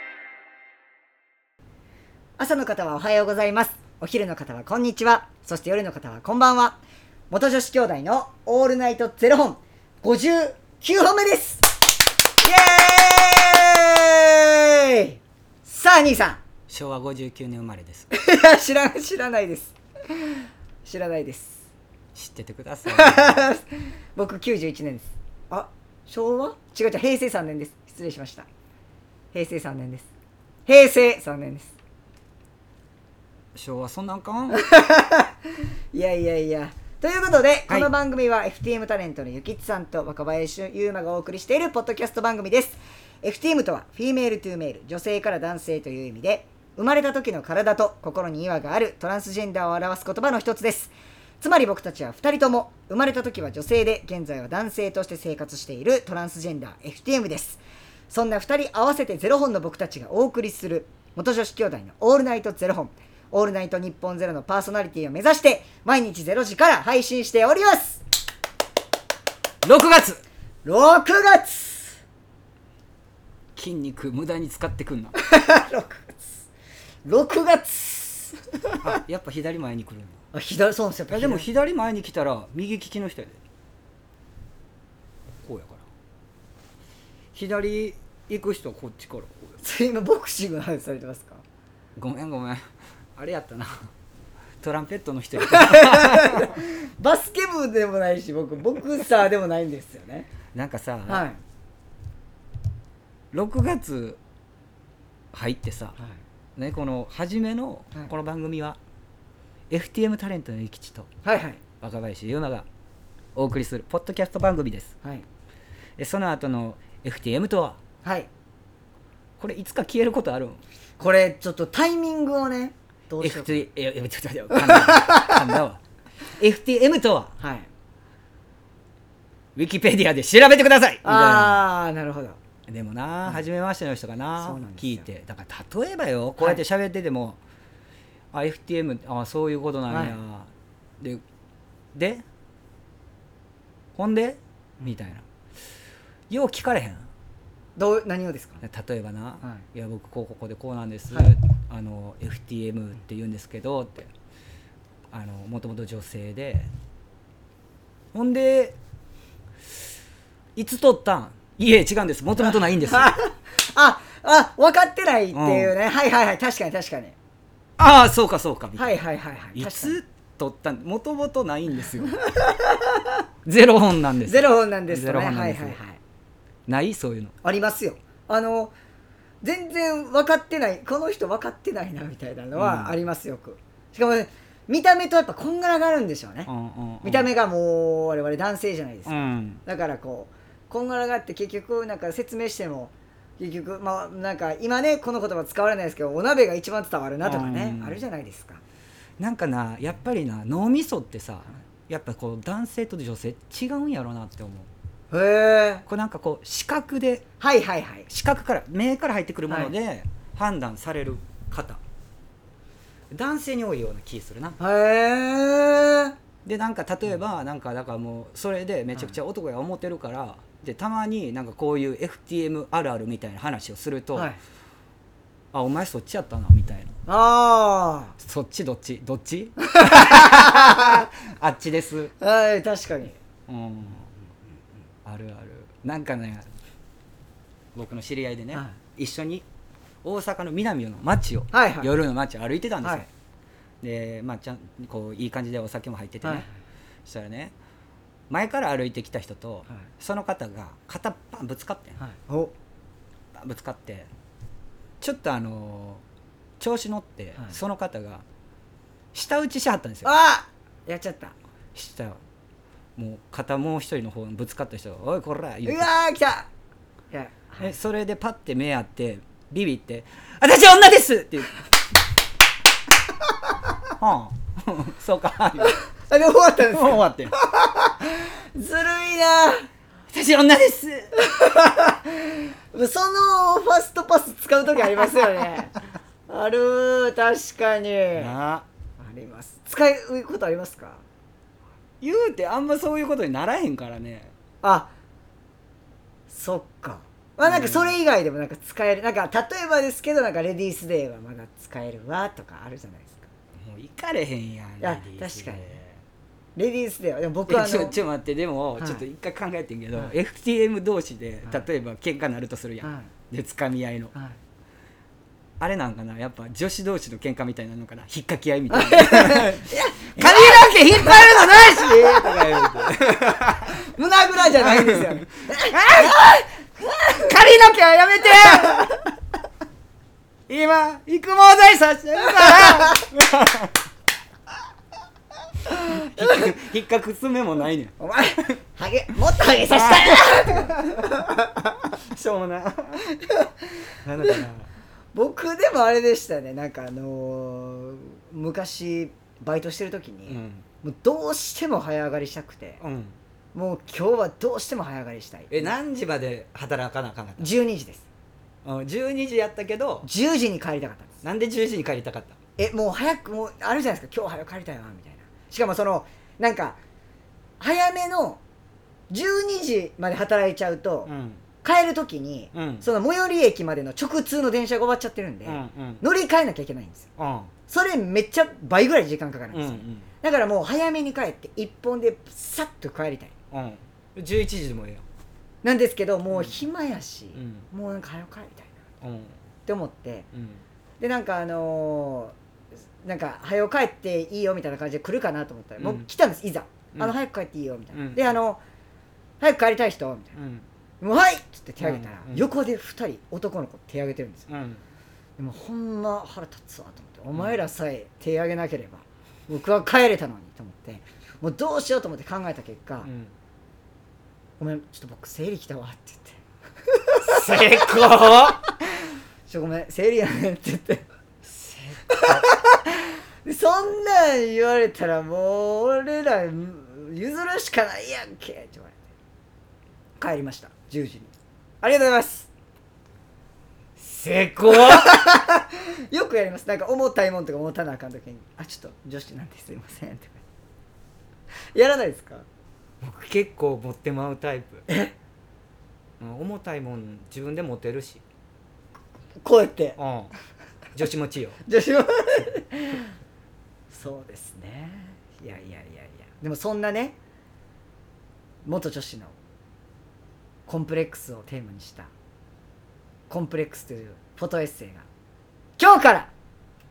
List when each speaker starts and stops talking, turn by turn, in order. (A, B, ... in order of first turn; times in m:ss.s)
0:02.4-0:06.8 A
0:07.3-0:11.6 A
0:12.4-0:16.4 A
0:16.7-0:18.1 B
0:18.1-0:21.6 A
0:22.1-0:23.4 B
0:22.8-0:28.5 A
0:29.3-0:30.1 A
0:30.6-0:31.7 A
0:33.5-0:34.6 B
0:34.5-1:08.0 A
1:09.6-1:10.2 B
1:10.6-1:12.0 A
1:13.5-1:15.1 B
1:15.2-1:16.3 A
1:17.0-1:18.8 A
1:18.8-1:20.2 B
1:20.3-1:21.5 A
1:21.1-1:23.4 B
1:25.4-1:25.8 B
1:27.3-1:29.5 B
1:29.6-1:31.4 A
1:32.0-1:32.6 B
1:33.2-1:33.9 B
1:34.6-1:36.5 B
1:35.4-1:40.3 A
1:40.5-1:41.3 B
1:41.1-1:41.4 A
1:43.3-1:44.2 B
1:45.3-1:46.0 B
1:46.6-1:48.8 B
1:49.7-1:51.1 B
1:51.2-1:51.6 A
1:51.8-1:52.6 B
1:53.3-1:54.9 B
1:56.0-1:57.8 B
1:58.0-1:58.3 A
1:59.4-2:00.6 B
2:01.0-2:03.7 A
2:03.2-2:05.8 B
2:04.5-2:05.4 A
2:06.4-2:07.3 B
2:07.4-2:07.7 A
2:09.5-2:11.6 B
2:11.0-2:12.4 A
2:12.7-2:17.4 B
2:14.4-2:15.0 A
2:18.3-2:21.2 B
2:19.9-2:20.2 A
2:21.9-2:22.2 B
2:24.0-2:25.2 B
2:26.3-2:27.1 B
2:27.8-2:28.6 A
2:28.6-2:34.1 B
2:35.1-2:36.7 B
2:38.1-2:38.8 B
2:40.6-2:43.2 B
2:42.4-2:47.1 A
2:45.3-2:45.7 B
2:47.8-2:48.9 B
2:48.8-2:50.0 A
2:49.5-2:52.2 B
2:52.2-2:53.2 A
2:53.4-2:55.8 B
2:54.2-2:56.0 A
2:56.7-2:57.3 B
2:57.4-2:58.7 A
2:59.4-3:06.5 A
3:02.5-3:03.0 B
3:06.4-3:07.3 B
3:07.0-3:18.6 A
3:09.0-3:09.6 B
3:17.2-3:18.0 B
3:19.2-3:24.7 B
3:25.1-3:25.8 A
3:25.9-3:27.2 B
3:27.4-3:28.1 A
3:28.1-3:31.8 B
3:33.1-3:34.6 B
3:34.6-3:36.1 A
3:36.4-3:44.3 B
3:45.5-3:46.9 B
3:47.1-3:48.2 A
3:48.2-3:52.1 B
3:49.6-3:51.0 A
3:52.2-3:53.2 A
3:53.5-3:54.1 B
3:55.0-3:56.5 B
3:57.7-3:59.4 B
4:00.0-4:03.1 B
4:01.5-4:01.9 A
4:02.8-4:03.1 A
4:03.8-4:06.5 B
4:07.0-4:07.5 B
4:08.3-4:12.0 B
4:12.0-4:12.5 A
4:13.3-4:14.1 B
4:15.0-4:16.0 B
4:16.6-4:18.2 B
4:19.1-4:20.1 B
4:20.0-4:21.3 A
4:21.7-4:22.2 B
4:23.0-4:25.9 B
4:25.6-4:26.5 A
4:27.1-4:27.7 A
4:27.6-4:31.6 B
4:34.0-4:35.8 B
4:35.6-4:39.6 A
4:36.6-4:37.3 B
4:40.1-4:41.1 B
4:41.1-4:45.8 A
4:46.3-4:48.3 A
4:48.2-4:48.6 B
4:49.0-4:51.0 A
4:52.0-4:54.3 B
4:54.6-4:54.9 A
4:56.3-5:03.3 A
4:57.4-4:58.0 B
5:03.6-5:06.0 B
5:04.8-5:05.8 A
5:06.6-5:08.0 A
5:07.5-5:14.1 B
5:08.8-5:09.0 A
5:12.8-5:13.1 A
5:15.6-5:23.8 B
5:18.7-5:27.4 A
5:24.6-5:25.1 B
5:25.7-5:26.2 B
5:27.2-5:28.8 B
5:28.2-5:29.0 A
5:30.5-5:33.7 B
5:35.7-5:36.4 A
5:35.9-5:38.0 B
5:38.0-5:41.5 A
5:39.8-5:40.9 B
5:42.0-5:43.1 B
5:43.2-5:43.5 A
5:44.0-5:44.7 B
5:45.1-5:52.8 A
5:50.3-5:50.6 B
5:52.8-5:53.2 B
5:53.5-5:55.7 A
5:55.5-5:57.5 B
5:57.4-5:58.0 A
5:58.6-6:00.1 B
6:00.0-6:01.2 A
6:01.2-6:02.4 B
6:02.6-6:06.8 A
6:07.6-6:08.4 A
6:09.1-6:11.1 A
6:11.0-6:11.4 B
6:11.6-6:17.1 A
6:12.5-6:12.9 B
6:15.4-6:16.0 B
6:17.2-6:17.5 B
6:17.7-6:23.3 A
6:19.5-6:20.1 B
6:23.5-6:25.0 B
6:25.6-6:28.7 A
6:26.3-6:26.6 B
6:27.3-6:27.7 B
6:29.0-6:29.4 B
6:29.6-6:30.3 A
6:30.3-6:30.6 B
6:31.0-6:32.3 A
6:33.0-6:38.6 A
6:35.8-6:36.0 B
6:37.9-6:38.3 B
6:39.4-6:40.4 A
6:40.4-6:40.6 B
6:41.0-6:44.5 A
6:41.8-6:42.5 B
6:44.5-6:44.8 B
6:45.4-6:53.1 A
6:47.3-6:47.6 B
6:53.0-6:53.3 B
6:54.6-6:56.4 A
6:56.9-6:57.9 A
6:57.2-6:58.6 B
6:59.5-7:01.0 A
7:01.4-7:02.5 B
7:02.1-7:09.0 A
7:10.2-7:12.5 A
7:14.0-7:15.2 B
7:14.7-7:20.4 A
7:21.7-7:22.4 A
7:23.0-7:24.8 B
7:24.9-7:25.1 A
7:26.2-7:28.2 B
7:29.4-7:30.0 A
7:30.0-7:30.3 B
7:30.9-7:31.6 B
7:31.6-7:33.1 A
7:33.9-7:37.2 A
7:38.6-7:39.3 A
7:40.7-7:42.1 A
7:43.3-7:45.0 A
7:45.8-7:46.3 A